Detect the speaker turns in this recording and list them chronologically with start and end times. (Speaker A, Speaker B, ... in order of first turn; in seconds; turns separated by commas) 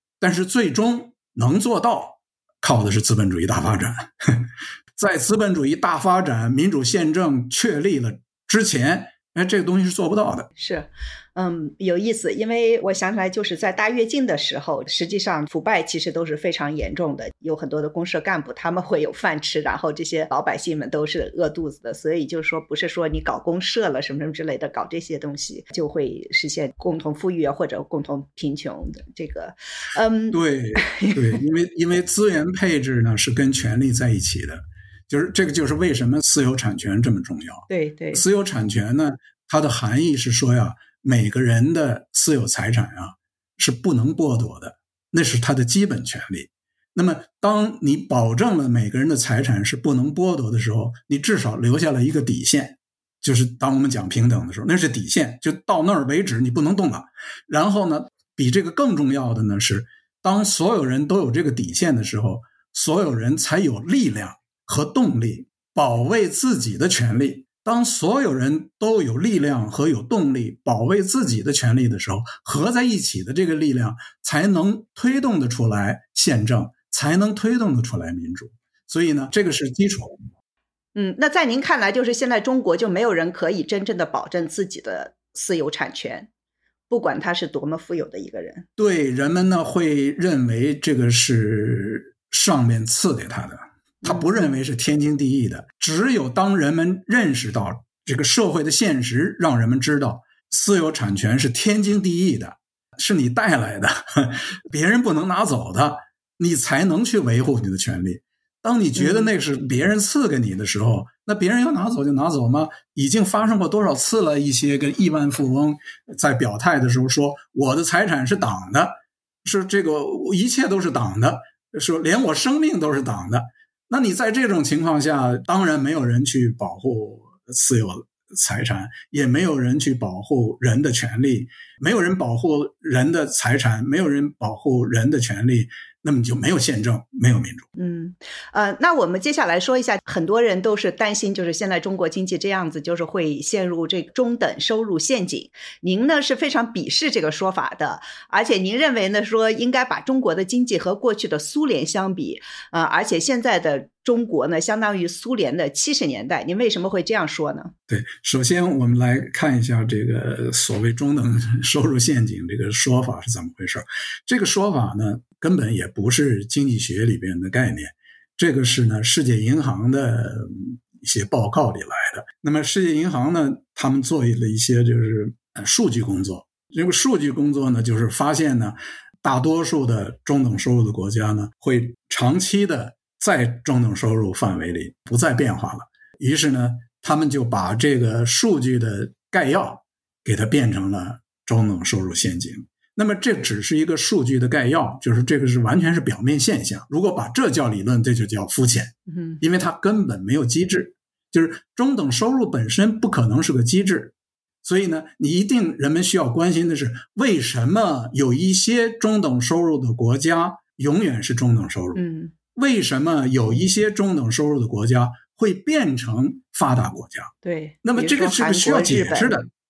Speaker A: 0.2-10.5, Speaker B: 10.6-31.4, Speaker A: 30.3-80.2, Speaker B: 37.7-38.2, Speaker B: 81.0-86.3, Speaker B: 86.9-88.7, Speaker A: 88.8-137.7, Speaker B: 94.0-94.5, Speaker B: 109.0-109.3, Speaker B: 137.8-157.7, Speaker A: 157.9-212.0, Speaker B: 199.1-199.4, Speaker B: 211.9-212.3, Speaker A: 212.6-217.3, Speaker B: 217.4-219.4, Speaker A: 217.8-219.5